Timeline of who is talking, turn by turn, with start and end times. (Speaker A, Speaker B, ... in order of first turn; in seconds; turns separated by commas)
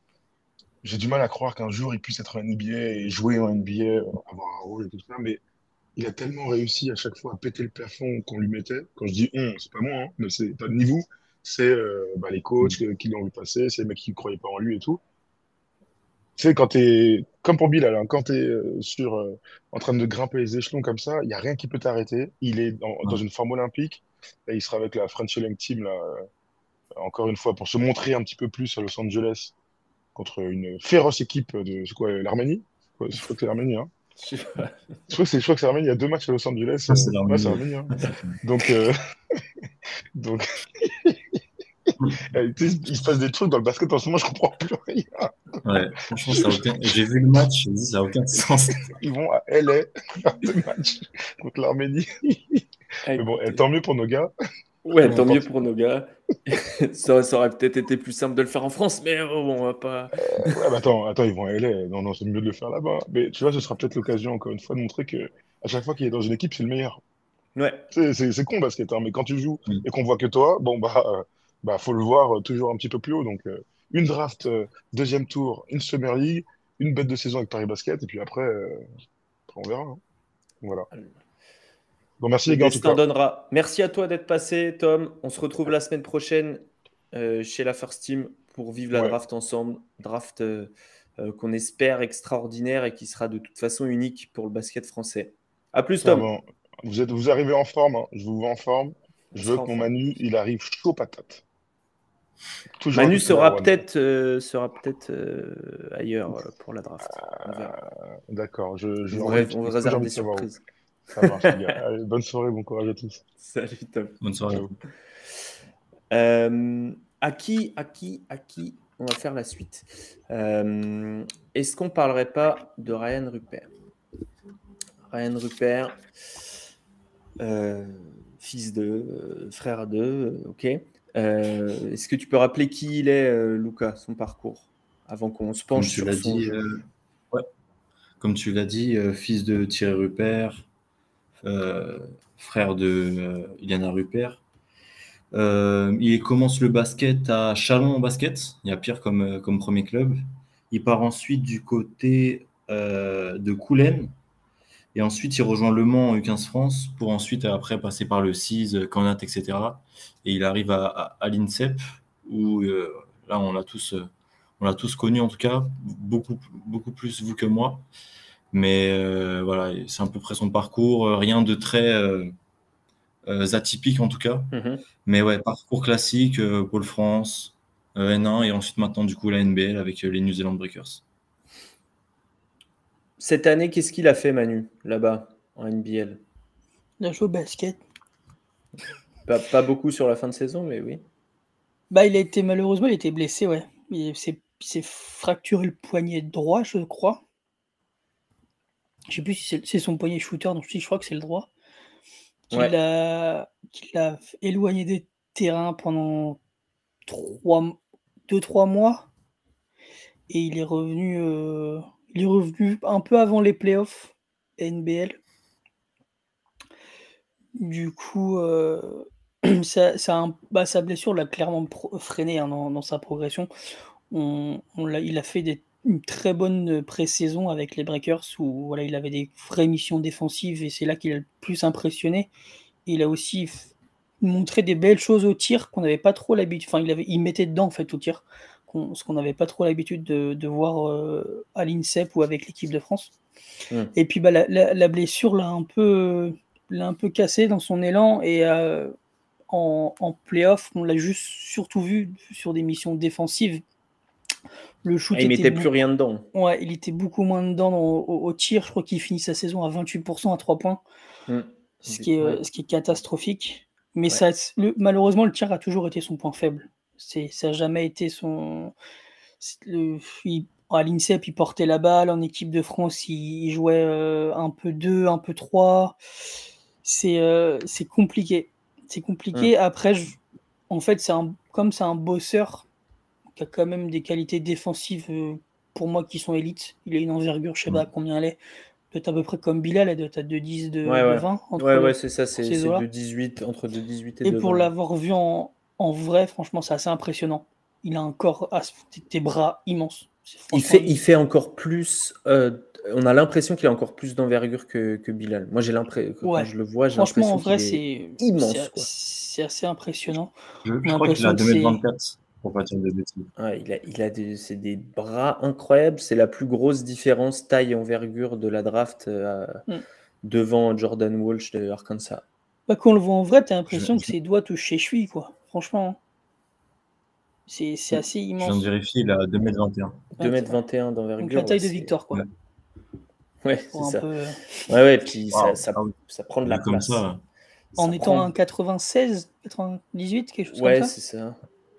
Speaker A: 0.8-5.4, Speaker A: 6.0-15.0, Speaker A: 16.4-26.2, Speaker A: 27.0-29.5, Speaker A: 30.1-33.9, Speaker B: 34.2-34.9, Speaker A: 35.1-39.4, Speaker C: 36.9-38.4, Speaker A: 40.2-41.4, Speaker A: 42.2-45.3, Speaker C: 45.6-48.9, Speaker A: 46.3-46.7, Speaker A: 48.9-54.3, Speaker B: 53.1-53.6, Speaker B: 54.9-60.6, Speaker C: 55.0-55.6, Speaker A: 60.2-67.0, Speaker B: 67.6-67.9, Speaker A: 67.9-78.9, Speaker A: 79.5-80.0, Speaker A: 80.6-80.9, Speaker A: 82.2-83.0, Speaker B: 82.5-96.3, Speaker A: 96.0-101.4, Speaker B: 99.3-99.9, Speaker A: 102.8-103.8, Speaker B: 102.9-107.8, Speaker A: 107.2-110.5, Speaker B: 109.1-110.6, Speaker A: 111.1-113.2, Speaker B: 111.2-111.5, Speaker B: 113.4-114.2, Speaker C: 114.2-114.8, Speaker B: 116.1-123.7, Speaker B: 125.1-126.0, Speaker B: 127.4-136.5, Speaker C: 135.7-137.5, Speaker C: 138.2-140.7, Speaker C: 141.4-144.4, Speaker C: 145.3-154.1, Speaker C: 154.9-167.9, Speaker C: 168.5-172.3, Speaker C: 173.3-174.5, Speaker B: 174.5-174.8, Speaker C: 175.0-181.0, Speaker B: 183.2-186.2, Speaker D: 187.0-187.8, Speaker B: 189.3-191.0, Speaker D: 191.9-197.2, Speaker D: 199.1-201.5, Speaker D: 202.5-206.4, Speaker D: 207.1-207.8, Speaker D: 208.3-209.1, Speaker D: 210.3-215.2, Speaker D: 217.6-223.5, Speaker D: 224.1-232.3, Speaker D: 232.9-243.2, Speaker D: 243.9-248.9, Speaker D: 249.5-253.6, Speaker D: 254.8-255.7, Speaker B: 255.1-256.3, Speaker D: 256.3-260.8, Speaker B: 261.3-262.4, Speaker D: 261.9-268.7, Speaker D: 269.4-276.0, Speaker D: 276.8-280.2, Speaker D: 280.7-282.7, Speaker D: 283.4-288.4, Speaker D: 288.9-292.9, Speaker B: 290.9-294.7, Speaker D: 294.2-301.0, Speaker B: 300.5-308.9, Speaker D: 306.2-310.3, Speaker C: 310.6-313.3, Speaker D: 310.9-311.8, Speaker B: 313.4-319.6, Speaker B: 320.2-322.2, Speaker D: 322.7-326.0, Speaker C: 323.7-324.1, Speaker D: 327.5-328.6, Speaker C: 328.4-330.1, Speaker D: 330.2-330.6, Speaker B: 330.2-332.0, Speaker D: 331.2-332.2, Speaker B: 333.4-334.1, Speaker D: 333.7-334.4, Speaker B: 334.7-337.0, Speaker C: 335.3-335.9, Speaker C: 336.5-337.2, Speaker B: 337.7-338.3, Speaker D: 337.8-340.9, Speaker B: 340.5-341.4